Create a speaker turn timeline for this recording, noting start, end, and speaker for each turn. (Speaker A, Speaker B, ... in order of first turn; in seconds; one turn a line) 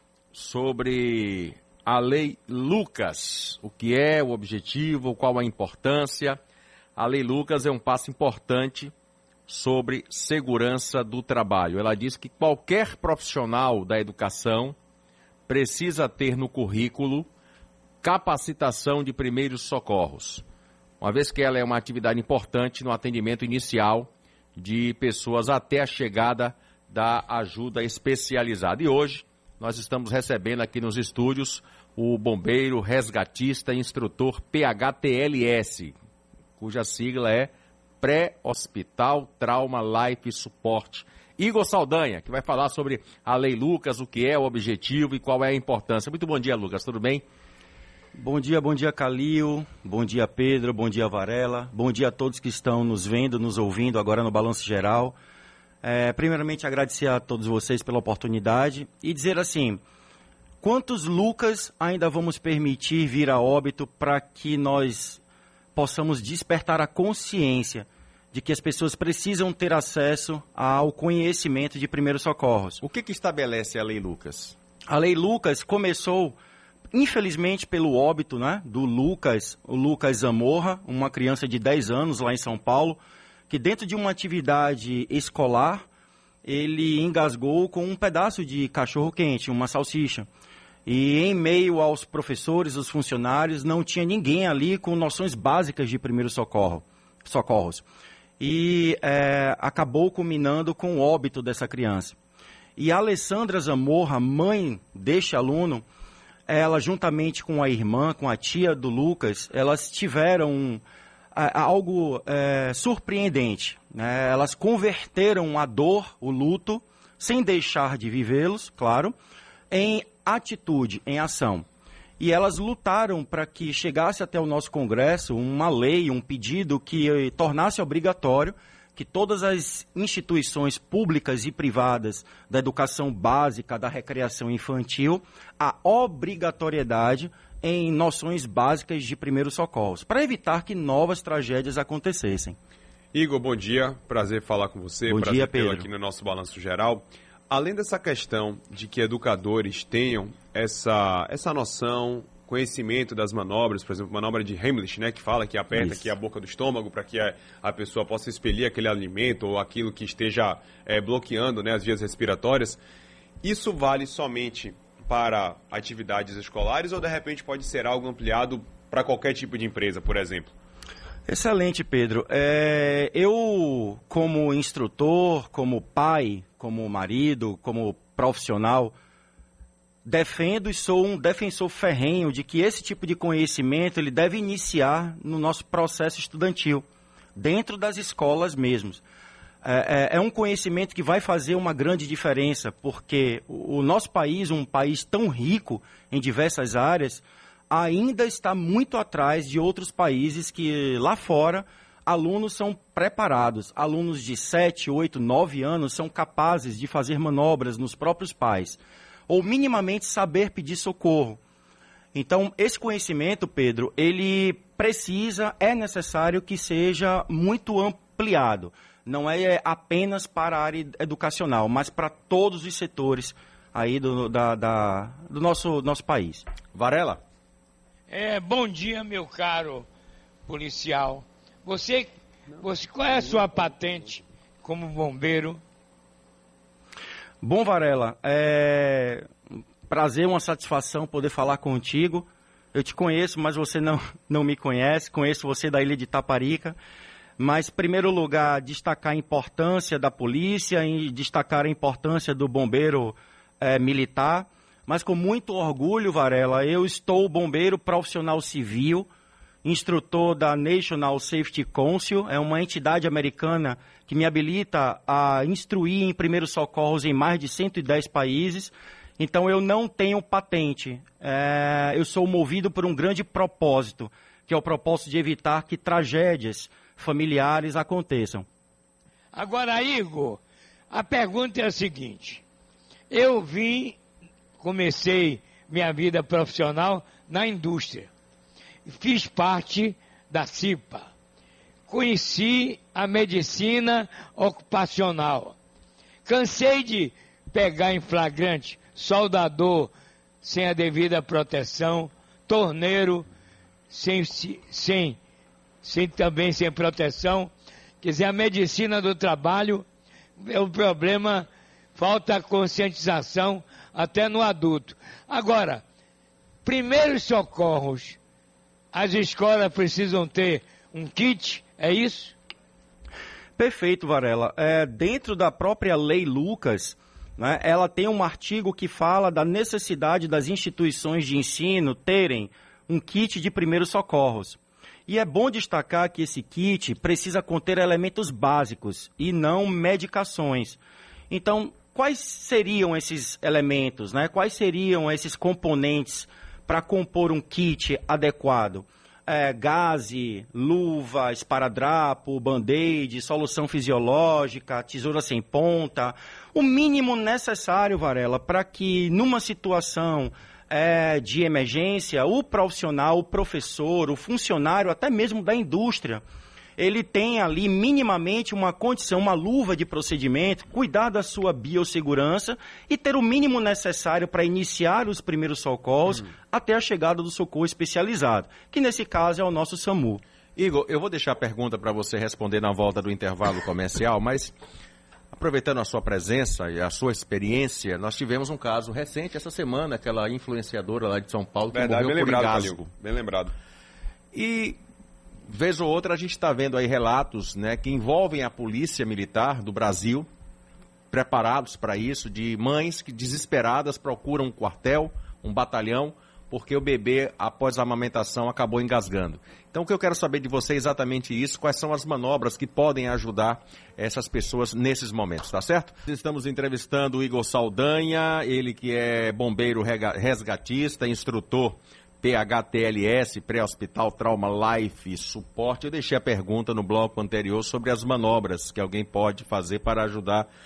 Speaker A: 0.3-6.4
Speaker A: 7.0-8.9
Speaker A: 9.5-14.8
Speaker A: 15.5-17.3
Speaker A: 18.0-20.4
Speaker A: 21.0-35.9
Speaker A: 36.6-37.5
Speaker A: 38.0-47.2
Speaker B: 48.1-55.1
Speaker B: 55.8-59.8
Speaker B: 60.6-65.2
Speaker B: 65.7-72.8
Speaker A: 72.8-74.5
Speaker B: 74.9-76.4
Speaker B: 76.9-85.8
Speaker B: 86.4-90.3
Speaker B: 90.8-97.8
Speaker B: 98.4-102.2
Speaker B: 102.8-105.8
Speaker B: 106.5-110.8
Speaker B: 111.3-119.1
Speaker B: 119.7-121.7
Speaker B: 122.2-142.6
Speaker C: 143.1-162.8
Speaker B: 145.1-145.9
Speaker B: 155.7-156.1
Speaker C: 163.4-170.5
Speaker B: 171.3-178.9
Speaker B: 180.0-186.8
Speaker B: 187.3-189.0
Speaker B: 189.6-211.4
Speaker B: 212.1-226.4
Speaker A: 226.7-227.2
Speaker D: 228.1-229.9
Speaker D: 230.4-235.6
Speaker B: 237.4-239.3
Speaker B: 239.9-246.8
Speaker B: 247.4-259.1
Speaker B: 259.6-278.4
Speaker D: 279.3-282.4
Speaker D: 283.1-284.0
Speaker D: 284.6-288.1
Speaker D: 288.9-291.1
Speaker D: 291.9-295.6
Speaker D: 296.2-303.2
Speaker D: 303.9-305.2
Speaker D: 305.8-309.9
Speaker D: 310.4-315.8
Speaker D: 316.6-318.2
Speaker D: 318.9-322.3
Speaker B: 323.6-366.2
Speaker B: 366.8-380.2
Speaker A: 380.6-384.5
Speaker A: 385.3-392.9
Speaker C: 391.7-393.5
Speaker A: 394.3-394.8
Speaker A: 395.5-400.3
Speaker A: 401.1-430.5